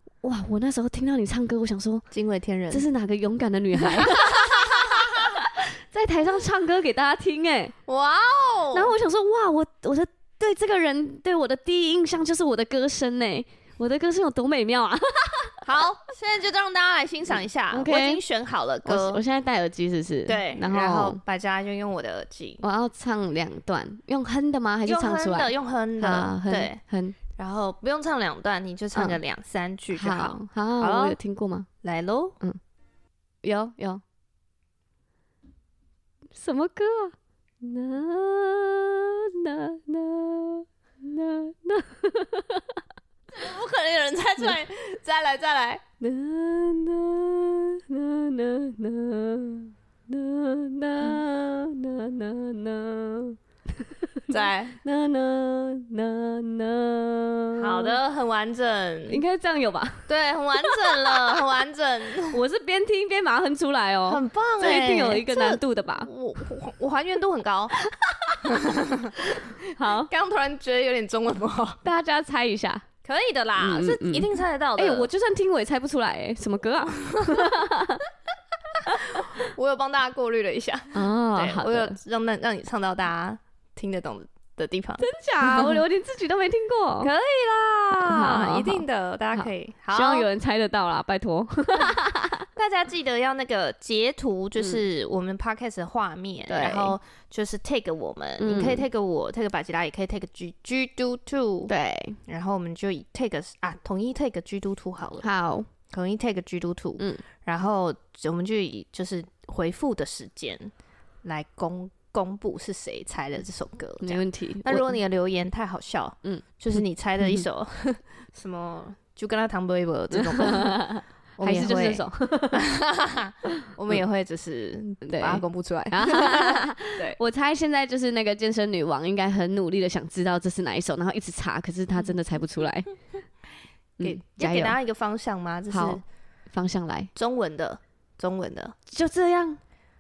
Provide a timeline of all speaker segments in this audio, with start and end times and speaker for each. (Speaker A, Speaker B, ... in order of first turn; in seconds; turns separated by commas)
Speaker A: 0.2-2.1, Speaker B: 2.1-2.9, Speaker A: 2.7-7.8, Speaker B: 4.1-5.4, Speaker B: 7.9-8.9, Speaker A: 8.7-15.6, Speaker B: 15.6-19.2, Speaker A: 17.7-18.2, Speaker A: 18.9-21.2, Speaker B: 20.3-22.6, Speaker A: 22.6-27.2, Speaker B: 24.9-26.8, Speaker B: 27.4-31.2, Speaker A: 29.9-31.7, Speaker B: 31.8-32.4, Speaker A: 33.4-34.0, Speaker A: 36.3-42.8, Speaker B: 43.3-45.8, Speaker A: 46.0-58.0, Speaker B: 54.3-54.8, Speaker B: 57.5-59.2, Speaker A: 59.1-60.1, Speaker B: 60.1-62.4, Speaker A: 60.6-61.4, Speaker A: 62.3-66.1, Speaker B: 64.1-67.8, Speaker A: 67.9-68.4, Speaker B: 68.4-71.8, Speaker A: 69.3-70.1, Speaker A: 71.8-72.9, Speaker B: 73.0-75.1, Speaker A: 73.6-78.0, Speaker B: 77.1-77.5, Speaker B: 78.8-85.8, Speaker A: 78.8-79.4, Speaker A: 80.9-82.0, Speaker A: 85.0-87.1, Speaker B: 87.0-90.3, Speaker A: 88.0-88.8, Speaker A: 89.3-92.5, Speaker B: 92.5-101.7, Speaker A: 96.5-97.0, Speaker A: 98.4-98.9, Speaker A: 101.7-102.2, Speaker B: 102.3-105.3, Speaker A: 105.2-105.7, Speaker B: 105.9-110.7, Speaker B: 111.2-127.2, Speaker A: 114.0-115.0, Speaker A: 116.2-117.5, Speaker A: 120.1-122.7, Speaker A: 125.0-132.9, Speaker A: 134.0-134.8, Speaker B: 134.0-136.0, Speaker A: 135.7-137.1, Speaker B: 137.2-138.8, Speaker A: 138.9-139.6